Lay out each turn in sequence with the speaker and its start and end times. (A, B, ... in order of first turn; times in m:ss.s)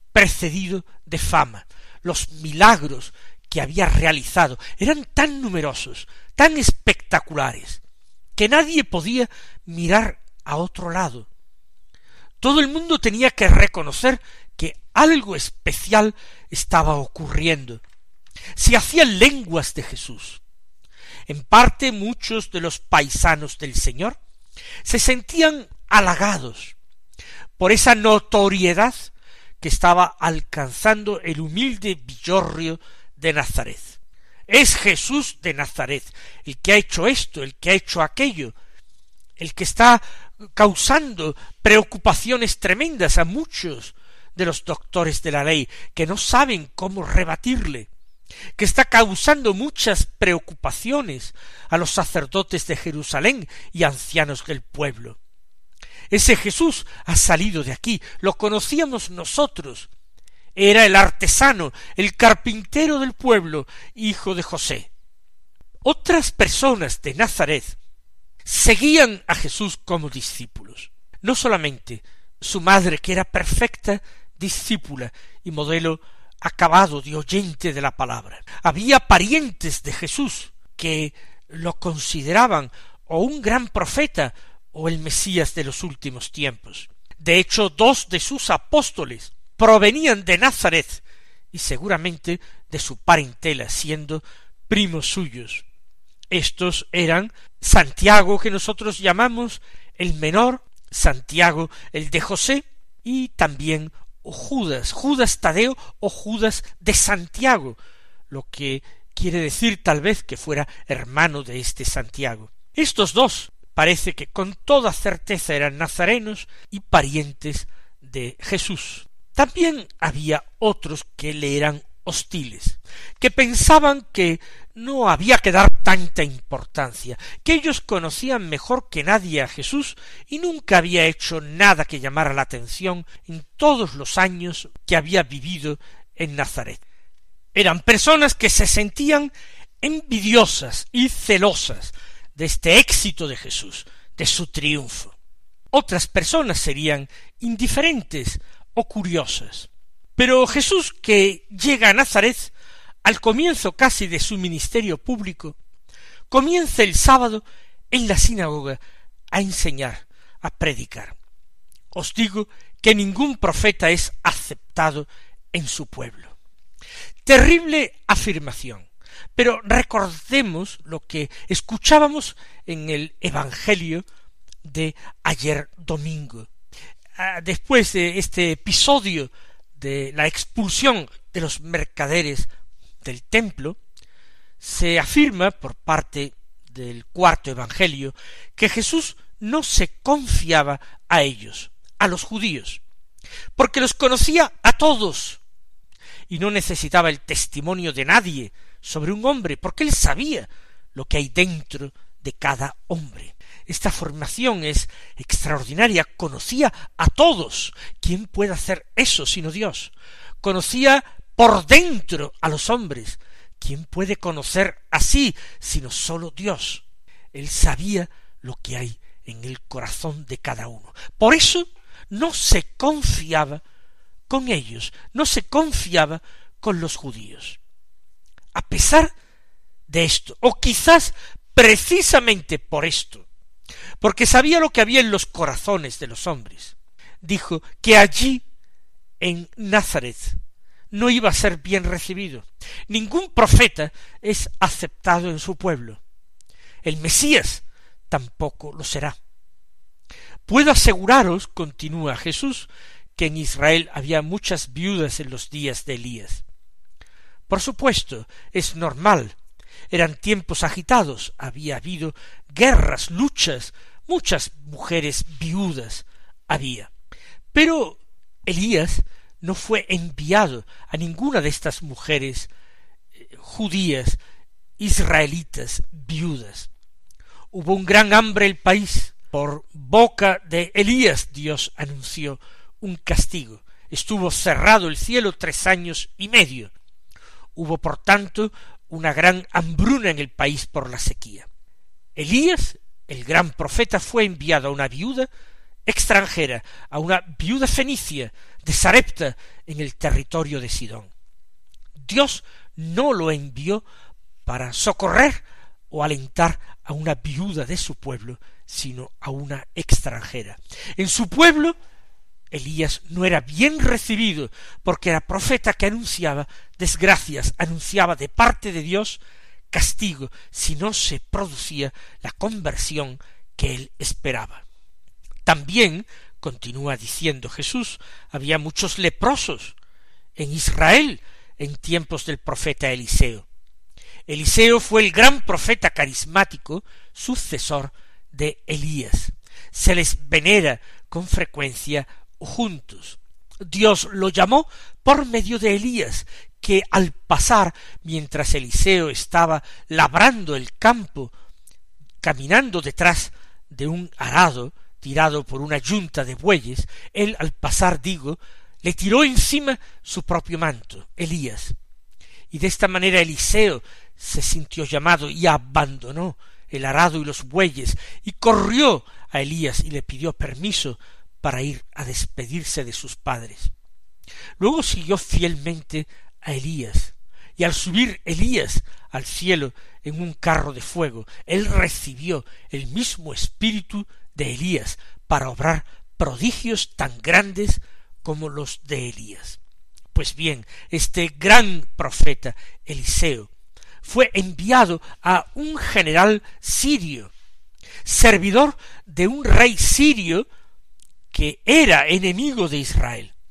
0:00.1-0:07.8 A
0:08.4-0:11.3 A
0:12.4-0:17.8 A
0:18.5-0:20.4 A
0:21.3-0:24.2 A
0:24.8-0:26.7 A
0:27.6-0:34.0 A
0:34.5-0:38.5 A
0:39.4-0:47.9 A
0:48.6-0:55.2 A
0:56.1-0:59.9 A
1:00.6-1:04.9 A
1:05.8-1:07.8 A
1:08.4-1:35.6 A
1:36.3-1:47.8 A
1:48.3-2:16.8 A
2:17.5-2:25.1 A
2:25.7-2:32.5 A
2:33.0-2:35.6 A
2:36.3-2:38.8 A
2:39.3-2:41.2 A
2:41.9-2:46.3 A
2:47.2-2:54.0 A
2:54.6-2:56.5 A
2:57.2-3:02.5 A
3:03.0-3:03.8 A
3:04.6-3:12.8 A
3:13.6-3:15.4 A
3:16.3-3:43.6 A
3:44.3-3:47.6 A
3:48.5-3:49.1 A
3:49.9-3:53.2 A
3:54.0-3:58.4 A
3:59.2-4:00.4 A
4:00.9-4:06.0 A
4:06.8-4:09.2 A
4:10.5-4:16.4 A
4:17.5-4:19.4 A
4:19.9-4:26.9 A
4:27.5-4:32.5 A
4:33.2-4:34.2 A
4:34.8-4:36.7 A
4:37.5-4:46.7 A
4:47.5-4:51.5 A
4:52.2-4:55.3 A
4:55.9-5:01.1 A
5:02.0-5:03.8 A
5:04.4-5:11.8 A
5:12.5-5:19.2 A
5:19.7-5:24.6 A
5:25.4-5:29.8 A
5:30.4-5:33.4 A
5:34.3-5:51.3 A
5:52.2-6:01.8 A
6:02.5-6:13.7 A
6:14.6-6:29.6 A
6:30.1-6:33.5 A
6:34.0-6:37.3 A
6:38.0-6:40.4 A
6:41.3-6:43.3 A